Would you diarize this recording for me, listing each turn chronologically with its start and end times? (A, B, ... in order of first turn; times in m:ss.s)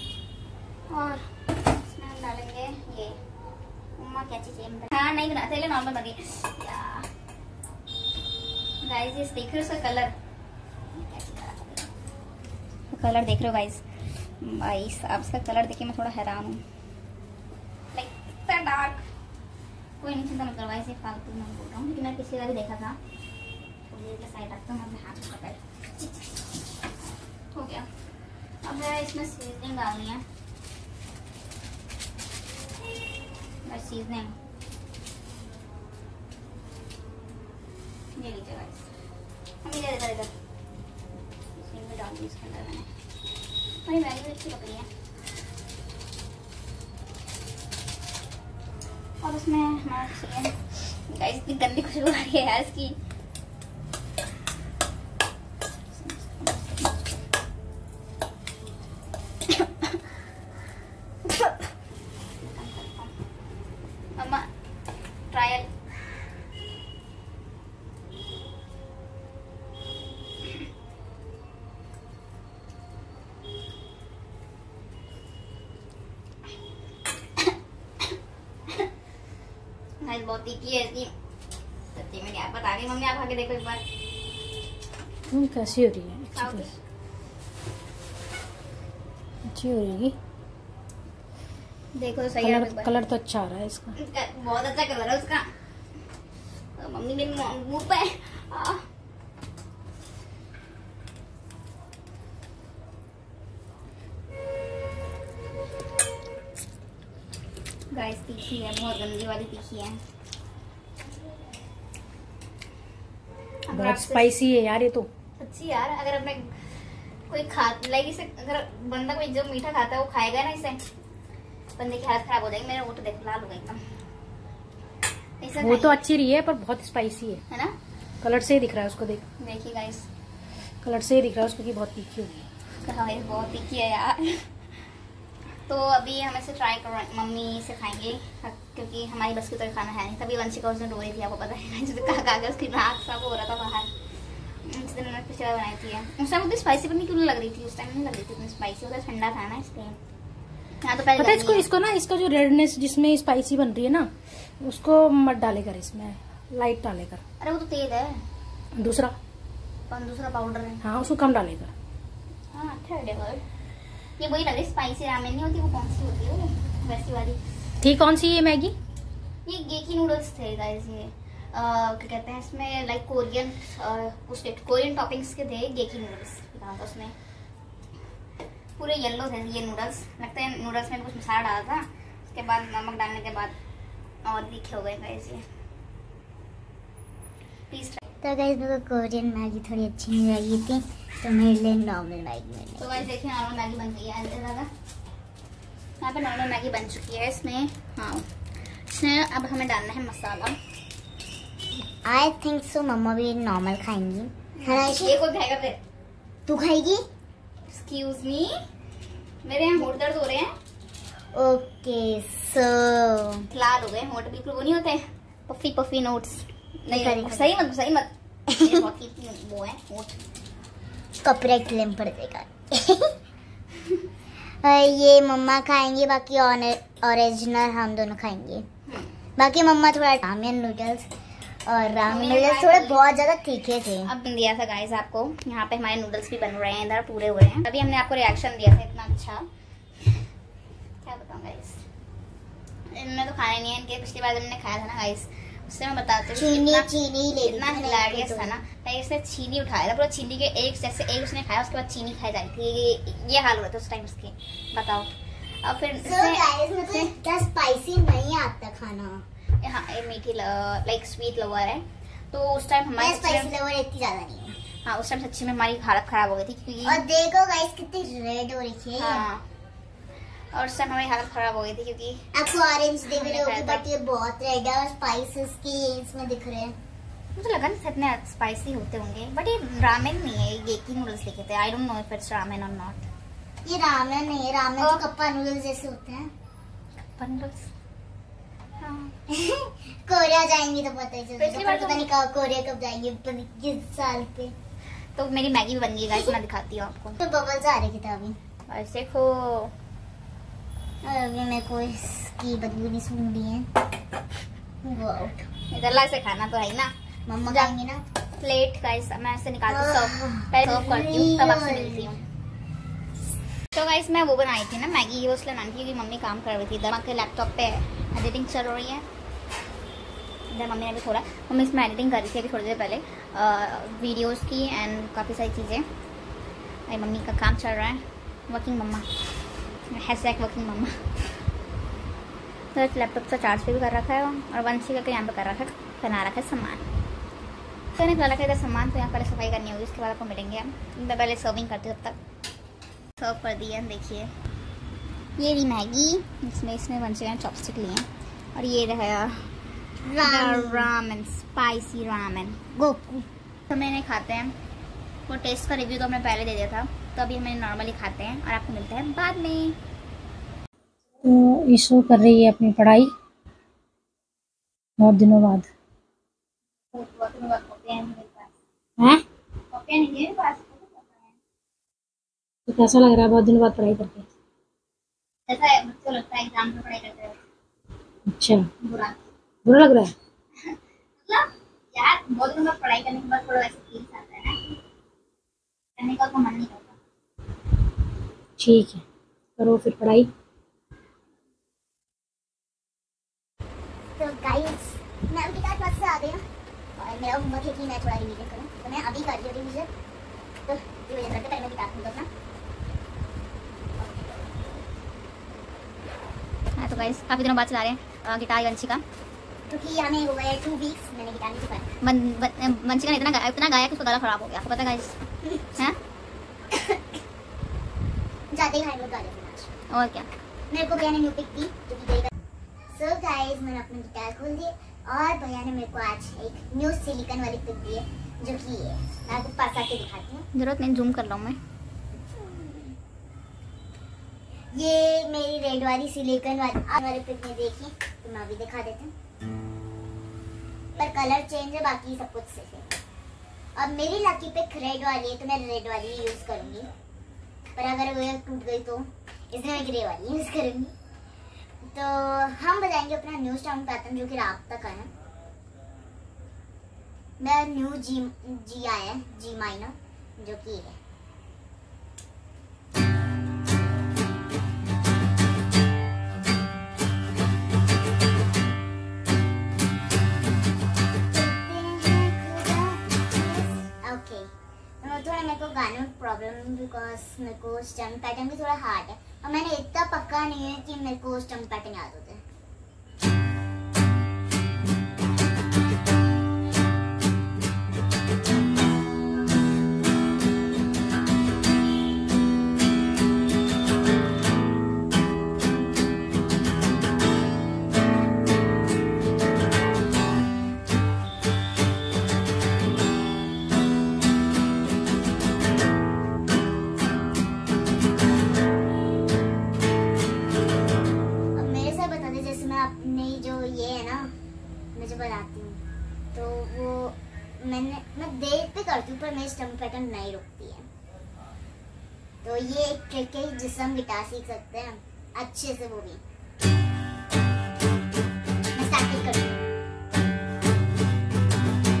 0:00.9-0:03.2 A
0:04.0-0:07.1 A
0:08.8-0:10.1 A
0:10.9-0:11.9 A
0:12.9-0:13.8 A
0:14.4-0:16.6 A
0:17.9-0:19.0 A
0:20.0-0:23.0 A
0:23.9-0:26.2 A
0:27.5-0:27.9 A
0:28.6-0:30.2 A
0:33.6-0:34.3 A
0:38.1-0:38.9 A
0:39.6-0:40.3 A
0:41.5-0:42.9 A
0:43.8-0:44.9 A
0:49.2-0:53.0 A
0:55.9-0:57.2 A
0:59.5-1:00.0 A
1:01.2-1:01.6 A
1:02.4-1:03.1 A
1:04.2-1:04.5 A
1:05.3-1:05.7 A
1:20.0-1:21.1 A
1:21.9-1:23.8 A
1:25.3-1:26.6 B
1:26.3-1:26.8 A
1:29.5-1:30.2 B
1:31.9-1:32.9 A
1:32.4-1:34.0 B
1:34.0-1:35.5 A
1:36.8-1:38.8 A
1:47.9-1:50.0 A
1:53.7-1:54.3 A
1:53.7-1:55.1 B
1:55.4-1:56.5 A
1:57.3-2:00.8 A
2:01.8-2:03.8 A
2:05.4-2:06.0 A
2:05.6-2:07.4 B
2:07.5-2:07.7 A
2:08.2-2:09.2 B
2:09.4-2:10.1 A
2:10.8-2:12.4 B
2:12.8-2:14.5 A
2:15.6-2:23.9 A
2:24.6-2:30.0 A
2:30.8-2:31.7 A
2:31.2-2:37.2 B
2:37.4-2:38.2 A
2:38.8-2:39.1 B
2:39.9-2:40.8 A
2:40.8-2:41.7 B
2:42.5-2:43.4 A
2:44.2-2:47.4 A
2:47.8-2:48.8 B
2:49.4-2:57.1 A
2:58.8-3:03.6 A
3:04.2-3:05.4 A
3:07.7-3:08.0 A
3:08.2-3:13.1 C
3:12.8-3:14.7 A
3:16.0-3:20.6 A
3:22.0-3:25.2 C
3:24.6-3:25.8 A
3:26.4-3:27.0 C
3:27.7-3:28.5 A
3:29.4-3:30.5 A
3:31.3-3:33.4 C
3:33.5-3:40.2 A
3:36.9-3:37.6 C
3:38.5-3:38.8 C
3:41.2-3:43.1 C
3:44.6-3:48.6 C
3:49.4-3:51.0 C
3:51.7-3:54.1 C
3:52.0-3:53.0 A
3:54.0-3:59.4 A
4:01.0-4:01.8 A
4:02.9-4:15.1 A
4:06.3-4:08.6 C
4:15.6-4:17.1 A
4:16.0-4:19.2 C
4:19.6-4:23.5 A
4:23.0-4:24.5 C
4:24.8-4:27.0 A
4:26.8-4:29.3 C
4:29.0-4:29.4 A
4:30.5-4:32.2 A
4:32.3-4:36.7 C
4:33.1-4:33.8 A
4:37.4-4:43.1 A
4:43.6-4:46.3 C
4:44.8-4:45.1 A
4:47.2-4:47.7 A
4:48.8-4:49.1 A
4:49.3-4:54.5 C
4:51.4-4:52.1 A
4:55.1-4:57.2 A
4:57.2-4:58.4 C
4:58.7-4:59.7 A
5:01.0-5:03.7 C
5:04.8-5:05.4 C
5:05.7-5:06.9 A
5:07.3-5:08.0 C
5:07.4-5:07.7 A
5:08.4-5:12.2 A
5:09.7-5:12.1 C
5:13.7-5:19.0 A
5:20.5-5:25.8 A
5:26.9-5:29.1 A
5:29.9-5:31.0 A
5:32.7-5:36.8 A
5:37.9-5:42.2 A
5:43.2-5:44.3 A
5:45.4-5:49.5 A
5:50.0-5:50.9 C
5:50.2-5:52.6 A
5:52.7-5:53.3 C
5:53.7-5:54.6 A
5:55.3-5:59.8 A
6:01.2-6:03.1 B
6:05.0-6:05.7 B
6:06.9-6:08.5 A
6:09.7-6:11.3 A
6:12.7-6:14.2 B
6:15.5-6:17.4 A
6:18.3-6:18.7 B
6:18.8-6:19.2 A
6:19.6-6:20.1 B
6:20.6-6:24.7 A
6:26.0-6:27.0 A
6:28.6-6:29.0 B
6:29.6-6:30.3 B
6:34.2-6:36.4 C
6:37.0-6:39.9 C
6:40.7-6:42.3 C
6:44.0-6:44.4 C
6:46.8-6:49.0 A
6:49.7-6:51.8 C
6:52.0-6:55.2 A
6:55.4-6:55.8 C
6:56.7-6:57.0 C
6:58.5-6:59.7 C
6:59.9-7:00.3 A
7:00.7-7:02.3 C
7:02.9-7:10.4 C
7:10.5-7:11.6 A
7:12.4-7:12.9 C
7:14.7-7:19.1 C
7:21.0-7:23.0 C
7:23.8-7:26.9 C
7:27.8-7:30.9 C
7:31.8-7:35.1 C
7:37.4-7:41.0 C
7:51.3-7:54.5 C
7:55.0-8:02.4 C
8:31.6-8:34.3 C
8:34.9-8:35.8 C
8:36.3-8:40.8 C
8:42.4-8:46.2 C
8:48.7-8:49.7 C